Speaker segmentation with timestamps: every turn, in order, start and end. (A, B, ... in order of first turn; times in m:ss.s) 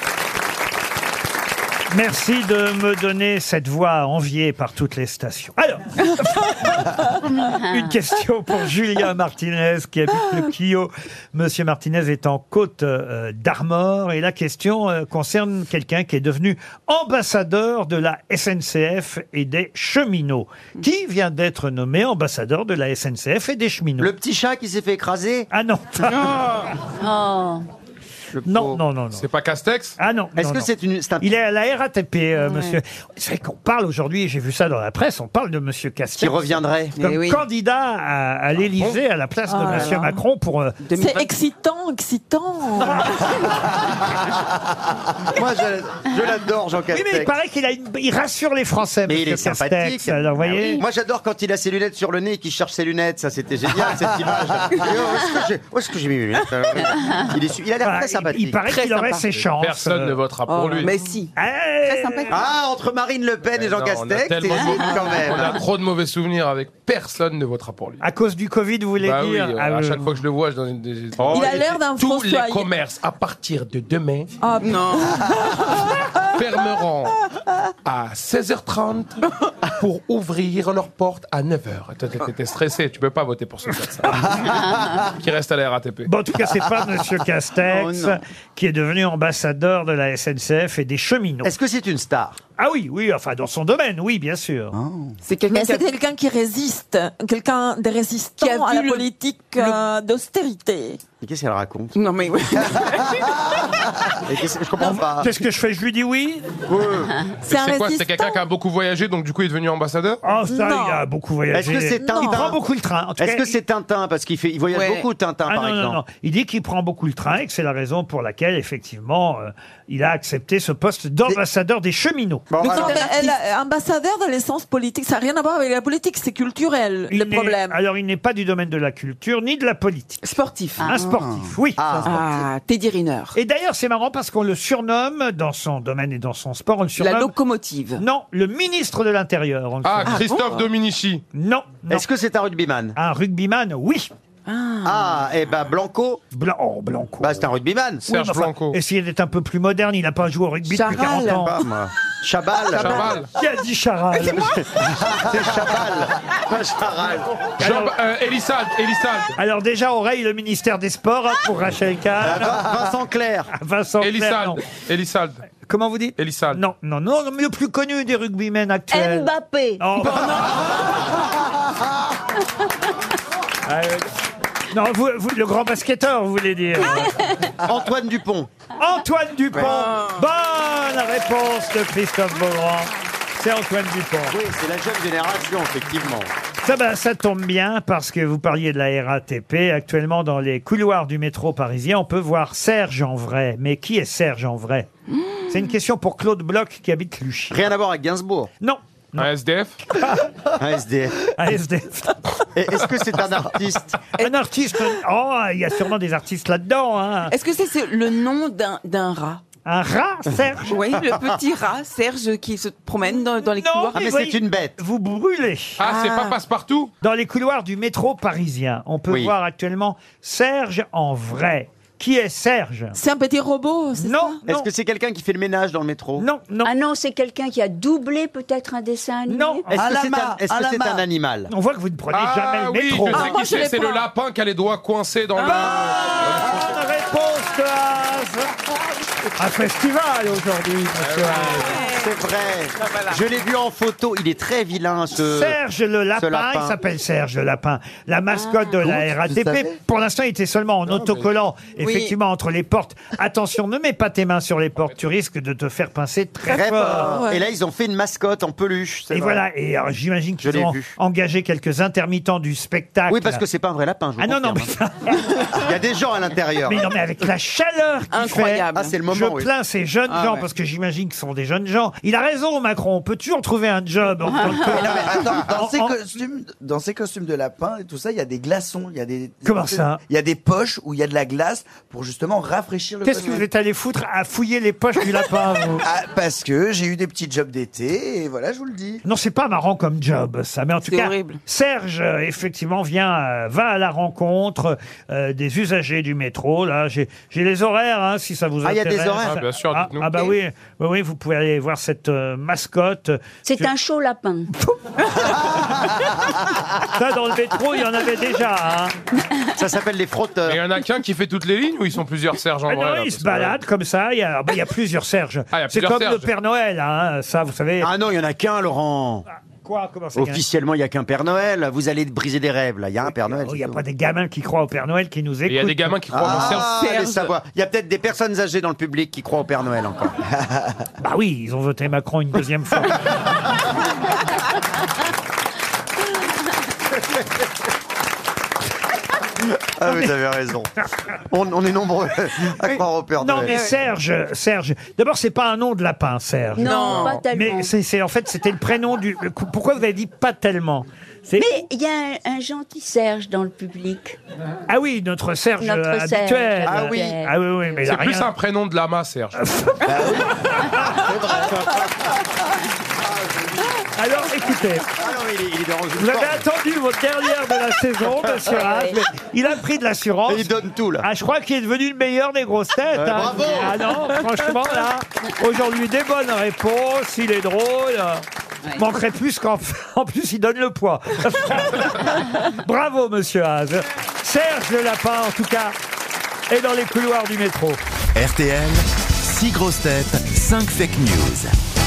0:01.9-0:24.1 A
0:24.0-0:25.5 B
0:25.5-0:26.4 A
0:26.1-0:26.4 C
0:27.0-0:27.6 D
0:28.3-0:28.8 B
0:28.4-0:29.2 A
0:29.2-0:29.9 E
0:30.0-0:30.7 A
0:30.4-0:31.3 B
0:31.2-0:40.8 A
0:32.4-0:32.8 C
0:36.2-0:37.0 B
0:37.0-0:37.4 C
0:39.5-0:40.1 F
0:39.6-0:40.1 C
0:40.8-0:41.3 C
0:40.9-0:43.2 F
0:45.3-0:47.3 B
0:46.9-0:50.8 A
0:49.1-0:58.6 B
0:57.8-1:00.2 A
0:58.7-0:59.2 C
0:59.3-1:01.0 E
1:00.5-1:01.3 C
1:01.4-1:02.3 A
1:01.8-1:02.5 C
1:02.3-1:05.6 B
1:03.5-1:08.0 E
1:04.9-1:05.4 C
1:08.0-1:10.2 A
1:09.0-1:14.3 E
1:11.3-1:12.7 F
1:14.4-1:15.6 F
1:14.6-1:15.4 C
1:16.3-1:17.2 E
1:17.8-1:26.1 E
1:26.0-1:31.5 A
1:27.6-1:28.2 B
1:31.4-1:32.4 B
1:32.6-1:34.7 A
1:34.7-1:35.1 G
1:35.2-1:35.9 C
1:35.5-1:41.0 F
1:38.4-1:39.8 C
1:41.2-1:42.0 B
1:41.9-1:43.6 C
1:44.2-1:45.3 B
1:44.8-1:46.5 A
1:46.7-1:47.1 B
1:47.4-1:48.4 F
1:47.4-1:50.2 E
1:50.2-1:53.6 A
1:50.5-1:51.0 F
1:51.5-1:52.6 B
1:53.2-1:56.0 B
1:54.7-1:55.1 C
1:55.5-2:02.5 A
2:02.5-2:03.1 B
2:02.6-2:03.4 C
2:02.6-2:07.8 F
2:07.1-2:10.2 A
2:10.2-2:11.2 C
2:10.8-2:12.1 A
2:11.0-2:12.3 G
2:11.8-2:12.2 B
2:12.0-2:13.4 C
2:13.3-2:17.3 A
2:17.0-2:18.0 C
2:18.0-2:20.3 A
2:19.8-2:21.2 E
2:20.0-2:20.7 C
2:21.3-2:22.0 A
2:21.9-2:23.0 B
2:23.0-2:24.1 A
2:24.5-2:25.2 C
2:24.8-2:26.2 B
2:26.3-2:27.4 A
2:27.2-2:28.0 B
2:28.0-2:28.8 E
2:28.1-2:31.6 A
2:30.6-2:31.6 C
2:30.9-2:33.2 B
2:32.7-2:33.3 E
2:32.8-2:33.2 C
2:33.3-2:34.6 A
2:34.3-2:37.3 B
2:37.6-2:37.9 A
2:37.6-2:39.3 E
2:39.4-2:42.7 A
2:42.2-2:43.5 B
2:43.5-2:44.6 A
2:44.0-2:45.4 E
2:45.7-2:50.5 A
2:46.2-2:46.6 E
2:48.9-2:50.1 D
2:50.0-2:50.5 C
2:53.7-2:54.1 A
2:54.7-2:57.2 A
2:57.6-2:58.5 B
2:58.8-3:04.4 A
2:59.5-3:00.2 C
3:04.3-3:06.3 B
3:06.6-3:14.9 A
3:15.5-3:17.7 A
3:17.5-3:18.5 B
3:18.6-3:19.3 A
3:19.2-3:19.8 E
3:19.9-3:20.3 A
3:20.6-3:21.2 B
3:21.4-3:22.2 A
3:22.5-3:24.1 B
3:24.2-3:27.3 A
3:27.3-3:29.4 C
3:29.6-3:30.8 A
3:30.7-3:34.0 C
3:33.4-3:35.8 A
3:33.9-3:34.8 B
3:35.8-3:36.9 E
3:35.8-3:36.3 F
3:37.0-3:43.0 A
3:39.1-3:39.3 B
3:42.9-3:44.4 F
3:44.0-3:44.7 A
3:44.4-3:46.2 B
3:46.2-3:46.7 A
3:46.6-3:49.6 D
3:49.3-3:49.8 A
3:49.7-3:51.5 B
3:49.7-3:51.0 G
3:51.5-3:53.3 A
3:52.1-3:56.8 E
3:53.1-3:54.1 F
3:55.4-3:55.7 C
3:55.4-3:58.5 A
3:59.4-4:01.8 A
4:01.0-4:01.8 E
4:01.7-4:02.1 C
4:01.7-4:05.6 B
4:02.9-4:03.2 C
4:05.2-4:17.2 A
4:06.2-4:06.8 B
4:08.3-4:08.9 D
4:09.2-4:09.7 G
4:11.8-4:12.1 C
4:16.5-4:19.4 B
4:17.0-4:17.4 F
4:19.1-4:23.4 A
4:20.4-4:20.9 B
4:23.1-4:24.7 B
4:24.2-4:25.5 A
4:25.3-4:26.9 B
4:26.6-4:35.9 A
4:28.1-4:29.0 C
4:28.7-4:29.5 B
4:30.1-4:30.5 C
4:34.6-4:43.4 G
4:39.4-4:40.0 A
4:43.0-4:45.8 A
4:45.8-4:49.0 G
4:49.0-5:03.7 A
4:50.8-4:51.4 C
4:58.6-4:59.4 B
4:59.2-5:00.3 E
5:03.4-5:04.5 D
5:06.9-5:08.9 A
5:09.5-5:10.6 B
5:10.4-5:13.6 E
5:12.7-5:17.9 A
5:15.5-5:16.3 E
5:17.8-5:19.2 B
5:19.6-5:20.4 A
5:20.1-5:23.8 B
5:23.2-5:26.0 A
5:25.5-5:26.8 E
5:26.1-5:30.2 B
5:26.6-5:27.3 C
5:31.0-5:33.0 A
5:39.6-5:40.7 B
5:41.3-5:43.6 B
5:43.2-5:51.5 A
5:43.4-5:43.7 C
5:46.6-5:47.7 D
5:46.6-5:47.2 C
5:51.4-5:54.2 D
5:54.7-5:58.3 A
5:55.6-5:57.8 D
5:56.6-5:57.1 B
5:57.8-5:59.4 E
5:59.4-6:00.0 A
5:59.9-6:00.2 G
5:59.9-6:02.2 B
6:00.5-6:00.9 A
6:03.0-6:03.8 B
6:04.0-6:04.9 A
6:04.9-6:06.4 B
6:06.0-6:10.5 A
6:08.5-6:09.0 D
6:10.3-6:11.1 B
6:11.0-6:18.2 A
6:12.9-6:13.8 B
6:18.7-6:25.7 A
6:26.5-6:27.8 A
6:28.1-6:31.5 H